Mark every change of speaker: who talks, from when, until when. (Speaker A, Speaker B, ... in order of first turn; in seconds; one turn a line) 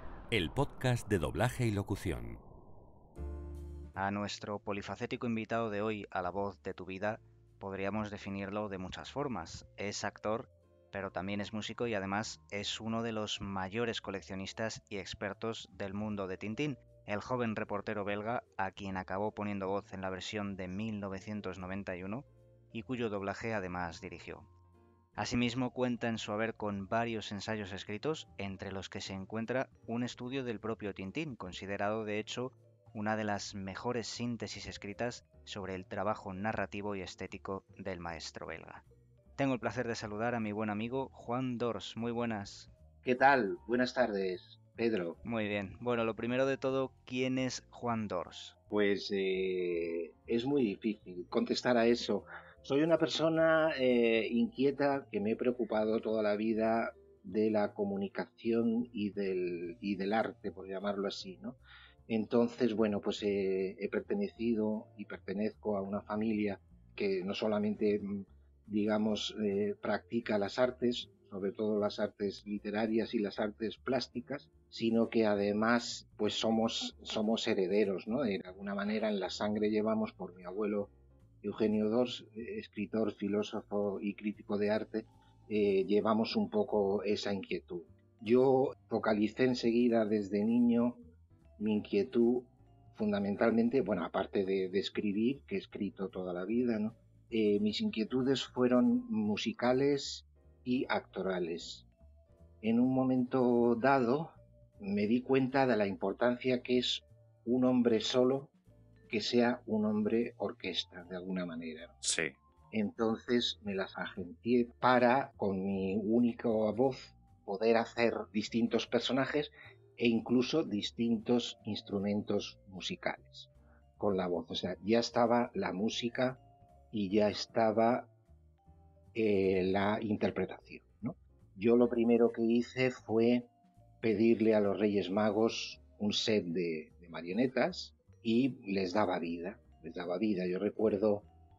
Speaker A: 0.3-2.4
Speaker B: 4.0-24.5
Speaker B: 25.2-38.8
Speaker B: 39.4-42.7
Speaker C: 43.0-45.2
Speaker B: 45.2-48.5
Speaker C: 48.7-61.6
Speaker C: 62.1-80.9
Speaker C: 81.4-91.0
Speaker C: 91.6-101.8
Speaker C: 102.6-108.5
Speaker C: 109.1-112.0
Speaker B: 112.0-112.3
Speaker C: 112.7-126.4
Speaker C: 126.9-128.1
Speaker C: 129.1-133.5
Speaker C: 134.0-141.3